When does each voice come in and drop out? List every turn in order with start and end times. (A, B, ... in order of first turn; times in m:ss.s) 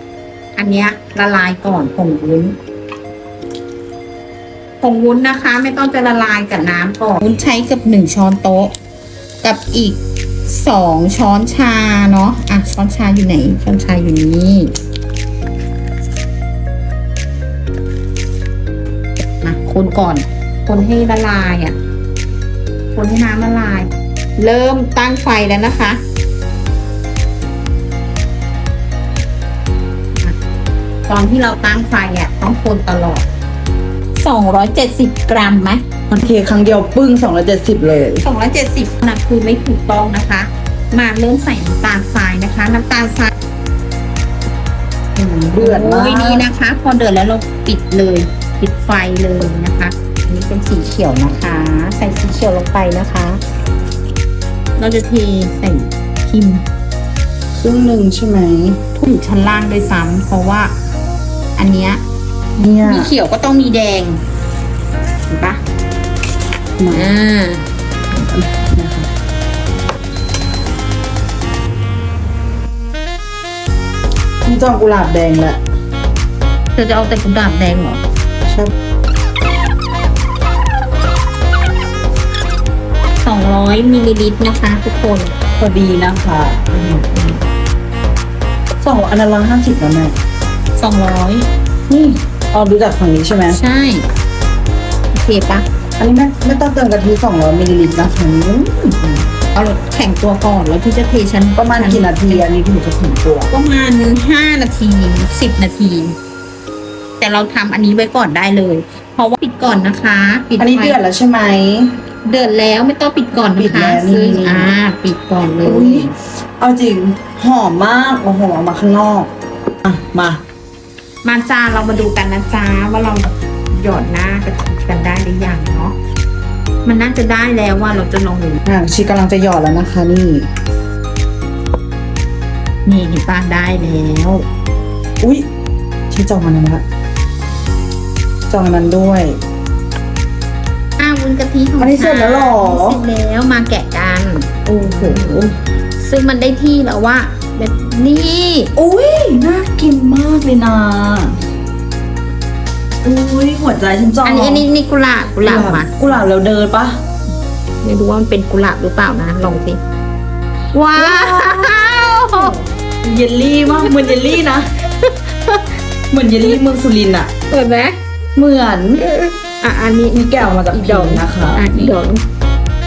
0:00.6-0:02.5 A
0:04.8-0:08.7 A
0:09.4-0:14.7 A
0:19.4-0:21.8 A
0:22.9-0:26.0 A
0:31.1-0:33.2 A
0:34.2-0:35.8 A
0:36.1-0:38.2 B
0:38.2-0:43.3 A
0:45.2-0:53.4 A
0:45.2-0:46.4 B
0:54.8-0:56.6 A
0:57.5-0:58.8 B
0:59.0-1:00.7 A
1:01.6-1:02.0 A
1:02.6-1:03.1 B
1:02.8-1:04.2 A
1:05.3-1:05.6 A
1:06.8-1:07.1 B
1:06.9-1:07.6 A
1:08.2-1:09.1 B
1:14.4-1:15.6 B
1:16.7-1:18.0 A
1:18.5-1:18.7 B
1:23.2-1:25.3 A
1:25.6-1:26.7 B
1:26.7-1:27.4 A
1:28.8-1:30.2 B
1:30.8-1:31.5 A
1:31.9-1:33.6 B
1:33.5-1:34.0 A
1:35.1-1:35.6 A
1:36.0-1:38.9 B
1:39.0-1:42.4 A
1:41.6-1:43.5 B
1:43.5-1:46.2 A
1:47.2-1:51.0 A
1:50.6-1:51.9 B
1:52.2-1:56.1 A
1:53.5-1:54.7 B
1:55.6-1:59.3 B
1:59.8-2:00.4 B
2:01.2-2:06.0 A
2:06.8-2:08.6 A
2:08.6-2:10.5 B
2:12.8-2:14.4 A
2:15.2-2:15.4 B
2:16.1-2:16.8 B
2:18.5-2:19.4 B
2:21.0-2:25.5 A
2:21.8-2:23.0 B
2:24.7-2:25.5 B
2:26.0-2:28.7 A
2:28.8-2:31.4 B
2:33.0-2:34.7 B
2:34.2-2:36.0 A
2:35.4-2:37.0 B
2:37.8-2:39.8 A
2:40.7-2:42.5 A
2:40.9-2:44.7 B
2:43.7-2:44.2 A
2:45.0-2:45.6 A
2:46.1-2:47.3 B
2:47.5-2:48.0 A
2:48.4-2:49.0 B
2:49.0-2:52.2 A
2:50.1-2:51.9 B